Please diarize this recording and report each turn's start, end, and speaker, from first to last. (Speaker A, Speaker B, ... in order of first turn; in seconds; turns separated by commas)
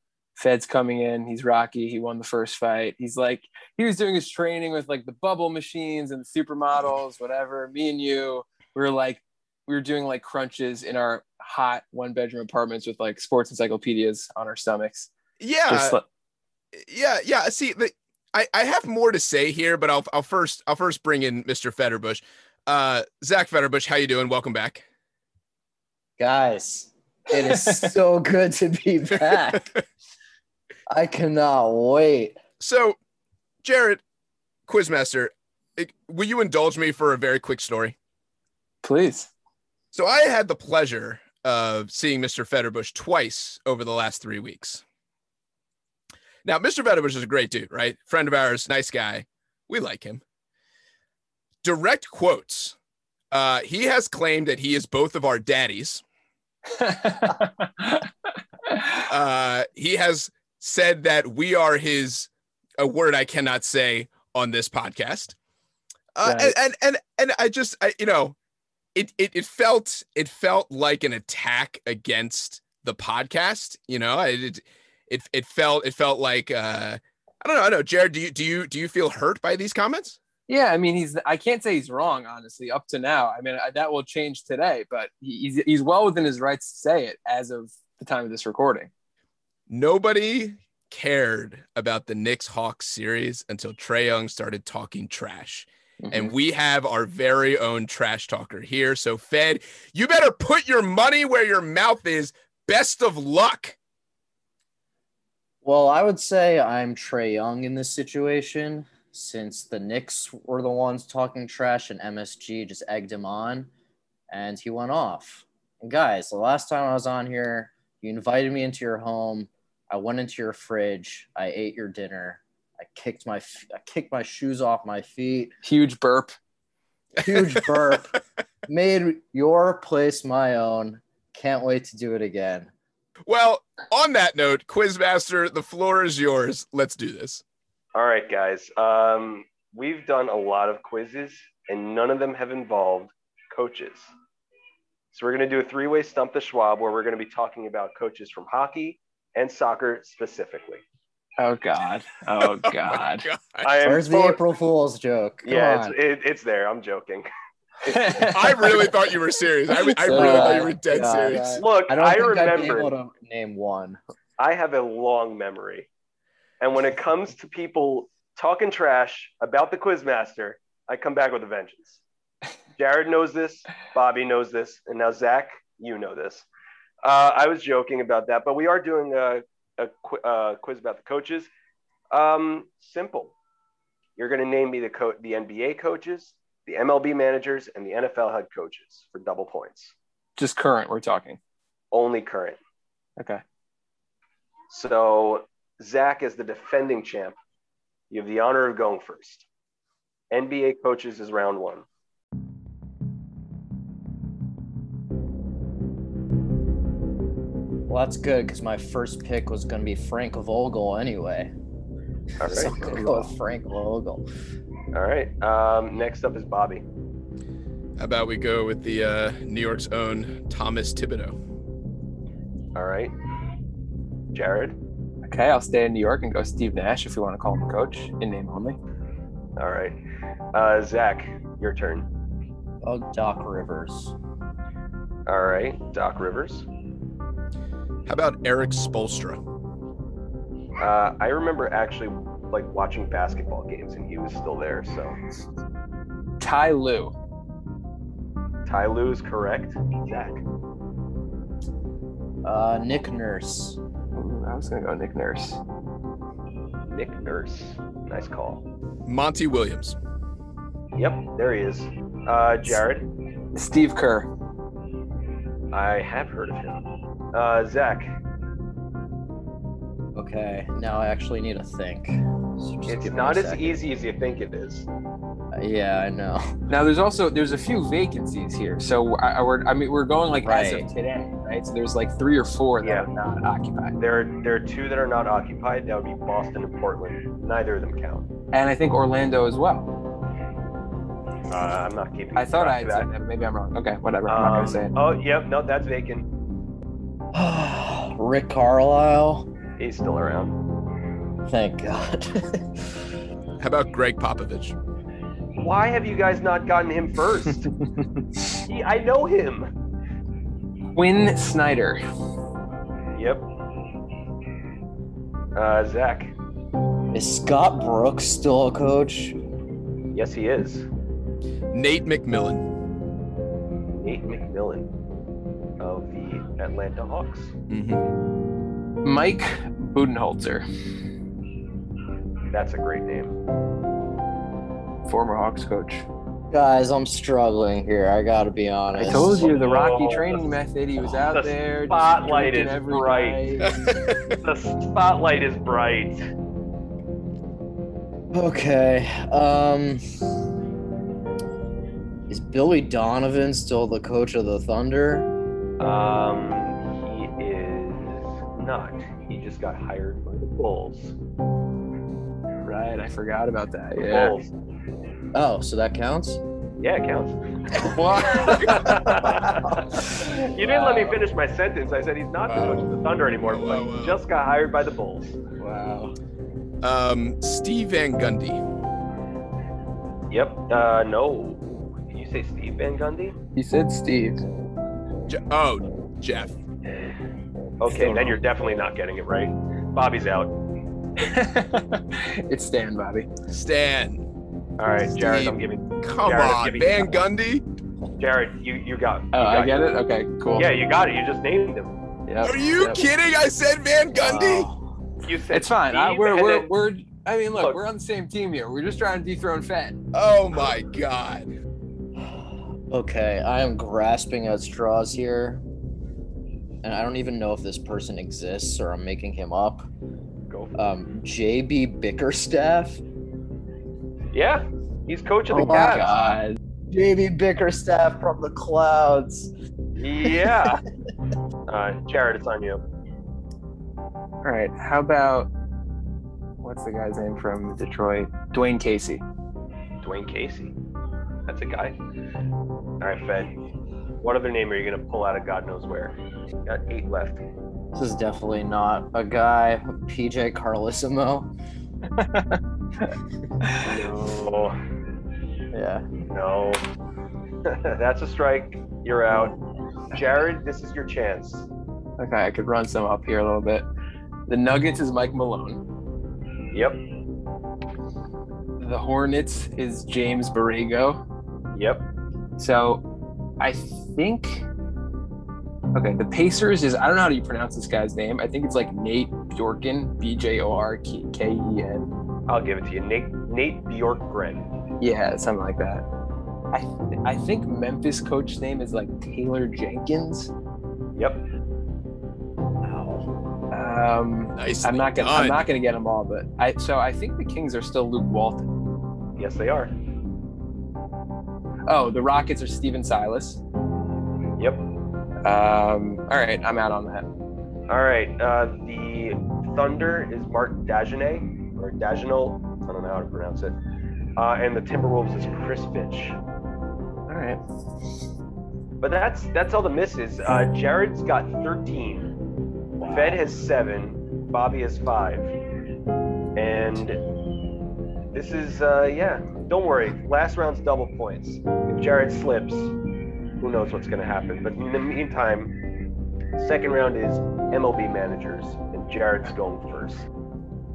Speaker A: 0.4-15.1, Speaker B: 15.4-16.0, Speaker A: 15.7-16.0, Speaker B: 16.7-24.8, Speaker C: 26.2-29.7, Speaker A: 27.4-27.9, Speaker B: 29.2-29.8, Speaker C: 30.9-32.4, Speaker B: 32.6-33.0, Speaker B: 33.6-34.0, Speaker B: 34.7-38.0, Speaker A: 38.8-39.3, Speaker B: 39.9-44.8, Speaker B: 46.4-50.2, Speaker B: 51.6-52.8, Speaker B: 53.3-56.0, Speaker A: 56.7-58.1, Speaker A: 58.7-59.0, Speaker B: 59.1-65.3, Speaker B: 66.1-68.3, Speaker A: 66.2-66.5, Speaker B: 68.9-80.2, Speaker A: 80.5-88.9, Speaker B: 89.7-103.8, Speaker A: 96.0-96.3, Speaker C: 105.6-113.7, Speaker C: 114.3-125.5, Speaker A: 125.6-126.4, Speaker C: 127.2-132.7, Speaker B: 127.3-127.7, Speaker B: 133.3-137.4, Speaker D: 137.9-144.1, Speaker D: 145.1-150.8, Speaker A: 151.4-153.3, Speaker B: 152.4-153.7, Speaker D: 153.6-154.4, Speaker C: 153.8-155.9, Speaker D: 155.4-157.3, Speaker A: 157.8-158.9, Speaker D: 157.8-158.2, Speaker B: 158.2-161.6, Speaker A: 159.7-161.5, Speaker C: 160.1-164.0, Speaker D: 161.6-162.9, Speaker D: 164.4-165.9, Speaker D: 166.6-172.0, Speaker D: 172.8-176.4, Speaker D: 177.0-181.5, Speaker D: 182.1-183.3, Speaker D: 184.2-189.9, Speaker A: 190.4-191.4, Speaker D: 191.9-192.6, Speaker D: 194.7-197.4, Speaker D: 198.1-199.4, Speaker D: 200.3-201.8, Speaker C: 207.9-211.5, Speaker D: 212.4-213.0, Speaker C: 212.4-214.2, Speaker D: 214.9-216.8, Speaker B: 218.0-221.4, Speaker D: 222.7-223.1, Speaker D: 224.3-224.8, Speaker A: 225.2-228.8, Speaker D: 229.6-230.0, Speaker D: 230.5-232.1, Speaker C: 232.8-234.1, Speaker D: 235.3-236.7, Speaker B: 238.1-239.4, Speaker D: 240.8-245.2, Speaker A: 246.4-247.1, Speaker D: 248.7-250.4, Speaker C: 252.4-253.8, Speaker A: 254.1-255.6, Speaker D: 256.9-258.6, Speaker B: 259.1-260.0, Speaker D: 260.9-263.1, Speaker A: 263.5-264.3, Speaker D: 265.7-268.1, Speaker C: 270.1-273.8, Speaker D: 272.9-274.9, Speaker C: 275.6-276.5, Speaker A: 276.7-283.9, Speaker C: 280.4-280.9, Speaker D: 284.0-288.3, Speaker A: 288.5-289.9, Speaker D: 291.5-293.1, Speaker A: 292.4-294.9, Speaker D: 294.3-296.2, Speaker C: 297.3-299.5, Speaker D: 299.8-300.6, Speaker C: 301.5-302.6, Speaker B: 303.6-304.7, Speaker D: 305.6-307.7, Speaker D: 308.7-309.7, Speaker A: 310.9-312.0, Speaker D: 313.1-313.4, Speaker D: 315.6-316.3, Speaker C: 317.1-319.4, Speaker D: 320.1-320.9, Speaker B: 321.7-322.6, Speaker D: 323.9-324.9, Speaker D: 325.8-327.5, Speaker B: 327.7-328.0, Speaker A: 329.0-330.6, Speaker D: 332.5-333.3, Speaker A: 335.1-336.1, Speaker C: 336.5-339.5, Speaker A: 338.9-343.7, Speaker D: 339.4-340.5, Speaker D: 341.1-343.5, Speaker B: 343.6-344.4, Speaker D: 344.4-346.2, Speaker C: 348.3-350.0, Speaker C: 352.3-355.3, Speaker D: 355.8-361.1, Speaker A: 362.6-364.3, Speaker D: 364.0-364.5, Speaker C: 365.3-366.4, Speaker D: 366.8-375.4, Speaker A: 367.9-369.1, Speaker C: 368.7-370.1, Speaker A: 370.6-371.2, Speaker B: 372.5-374.2, Speaker A: 375.6-376.1, Speaker B: 376.8-378.6, Speaker D: 380.3-383.4, Speaker A: 383.6-384.4, Speaker B: 385.3-386.5, Speaker D: 387.8-390.5, Speaker A: 391.2-393.3, Speaker B: 393.5-394.2, Speaker D: 394.8-397.2, Speaker B: 395.1-397.6, Speaker D: 398.2-399.9, Speaker A: 399.3-400.7, Speaker D: 400.6-401.9, Speaker A: 402.3-403.0, Speaker B: 402.4-404.7, Speaker C: 404.2-404.9, Speaker D: 405.2-406.7, Speaker A: 405.5-409.9, Speaker B: 410.1-411.5, Speaker C: 412.3-415.6, Speaker C: 416.8-419.9, Speaker C: 420.8-423.0, Speaker D: 424.3-426.1, Speaker A: 425.5-426.6, Speaker C: 425.5-426.2, Speaker C: 426.9-429.5, Speaker D: 430.0-430.8, Speaker C: 430.2-430.8, Speaker D: 431.7-432.8, Speaker A: 434.4-435.5, Speaker A: 436.6-439.2, Speaker D: 440.0-440.7, Speaker D: 441.5-442.0, Speaker D: 443.0-443.5, Speaker D: 444.2-447.4, Speaker C: 447.9-451.5, Speaker A: 452.1-452.6, Speaker A: 453.6-453.9, Speaker D: 453.8-454.8, Speaker C: 455.7-456.1, Speaker D: 456.3-456.8, Speaker D: 457.6-459.6, Speaker D: 460.1-461.7, Speaker A: 462.2-463.8, Speaker A: 464.5-465.8, Speaker D: 466.7-467.0, Speaker A: 468.8-471.2, Speaker D: 471.7-472.0, Speaker A: 472.6-473.0, Speaker A: 473.6-474.6, Speaker A: 475.9-482.1, Speaker D: 482.5-484.7, Speaker A: 485.0-486.0, Speaker A: 486.7-490.5, Speaker D: 491.1-491.4, Speaker C: 492.8-493.2, Speaker A: 493.7-498.6, Speaker B: 494.5-495.7, Speaker D: 499.4-499.9, Speaker A: 501.9-503.6, Speaker D: 504.6-504.8, Speaker A: 505.4-507.2, Speaker D: 507.9-513.8, Speaker D: 514.4-516.4, Speaker A: 517.3-517.6, Speaker D: 519.0-522.3, Speaker D: 523.0-525.5, Speaker D: 526.5-527.2, Speaker D: 528.3-532.9, Speaker D: 533.6-535.7, Speaker D: 536.6-540.2